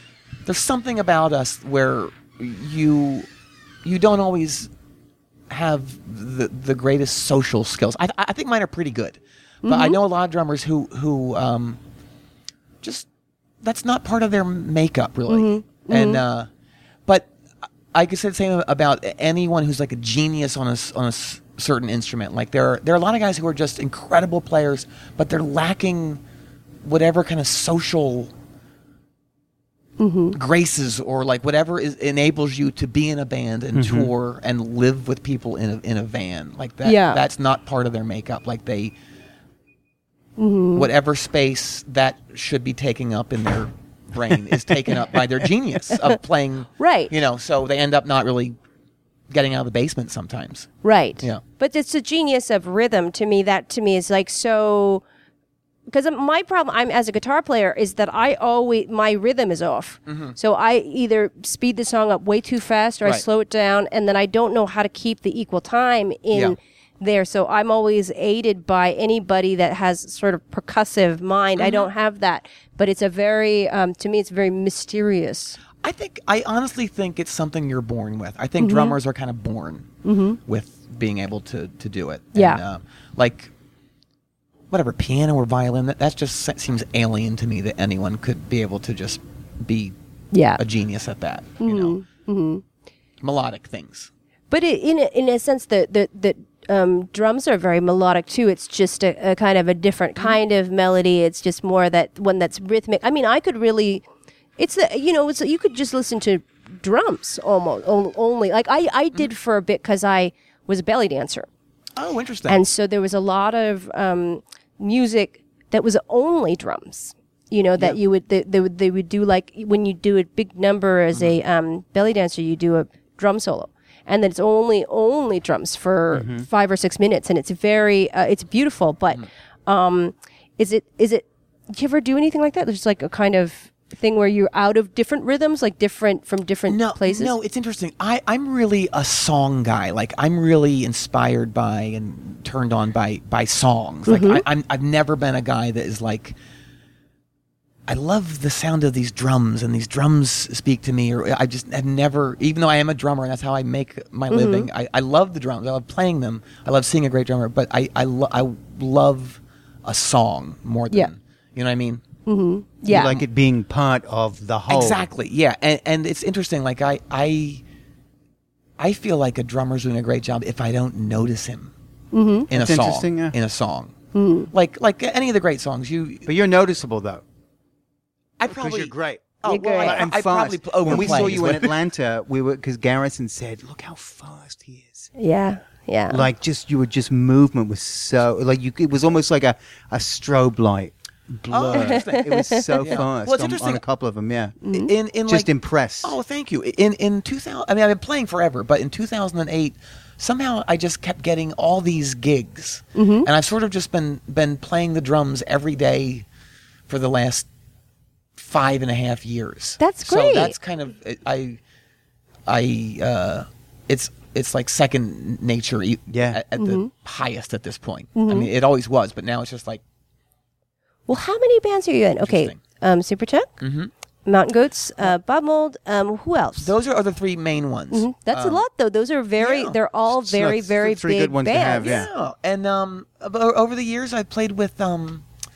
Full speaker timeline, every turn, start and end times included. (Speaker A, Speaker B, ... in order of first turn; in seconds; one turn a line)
Speaker A: 0.5-3.3
Speaker A: 3.8-4.7
Speaker A: 5.5-11.8
Speaker B: 9.6-10.0
Speaker A: 13.6-16.5
Speaker B: 15.3-16.2
Speaker A: 17.9-26.2
Speaker A: 26.8-28.3
Speaker B: 30.0-30.4
Speaker A: 30.3-38.9
Speaker C: 33.7-34.1
Speaker B: 36.8-37.2
Speaker B: 40.4-40.9
Speaker A: 40.7-48.5
Speaker B: 46.8-47.1
Speaker A: 49.3-51.4
Speaker B: 50.8-55.0
Speaker B: 55.9-75.6
Speaker A: 60.1-60.4
Speaker A: 71.6-71.9
Speaker A: 75.8-83.5
Speaker B: 78.6-79.0
Speaker B: 80.0-80.4
Speaker B: 82.3-82.6
Speaker A: 84.7-89.9
Speaker B: 90.3-90.6
Speaker A: 90.6-92.0
Speaker B: 91.6-92.6
Speaker A: 93.2-94.1
Speaker B: 94.5-104.0
Speaker B: 104.6-111.5
Speaker A: 112.0-112.6
Speaker B: 112.5-137.3
Speaker C: 126.1-126.5
Speaker A: 136.7-146.3
Speaker B: 144.1-144.4
Speaker A: 147.9-162.0
Speaker B: 154.3-154.7
Speaker B: 162.2-163.2
Speaker C: 162.9-165.1
Speaker A: 164.7-167.6
Speaker A: 168.8-171.7
Speaker B: 172.1-172.5
Speaker A: 172.5-173.9
Speaker C: 172.5-173.3
Speaker B: 174.1-174.5
Speaker A: 174.5-176.3
Speaker C: 176.2-177.2
Speaker A: 178.4-181.8
Speaker C: 178.5-185.1
Speaker B: 179.5-180.0
Speaker B: 185.2-186.3
Speaker C: 186.1-194.6
Speaker A: 191.5-193.8
Speaker B: 191.7-192.9
Speaker B: 194.6-194.9
Speaker A: 194.7-195.5
Speaker C: 195.3-196.2
Speaker A: 196.0-206.2
Speaker B: 202.9-203.3
Speaker A: 206.9-207.5
Speaker A: 208.4-211.6
Speaker B: 209.8-210.5
Speaker A: 212.5-219.8
Speaker C: 216.1-216.4
Speaker B: 216.6-216.9
Speaker B: 218.2-218.5
Speaker B: 221.1-223.5
Speaker A: 222.2-222.6
Speaker A: 223.6-223.9
Speaker B: 224.2-226.7
Speaker A: 226.6-228.6
Speaker B: 227.9-232.0
Speaker A: 229.4-229.8
Speaker C: 230.2-232.1
Speaker A: 231.8-235.2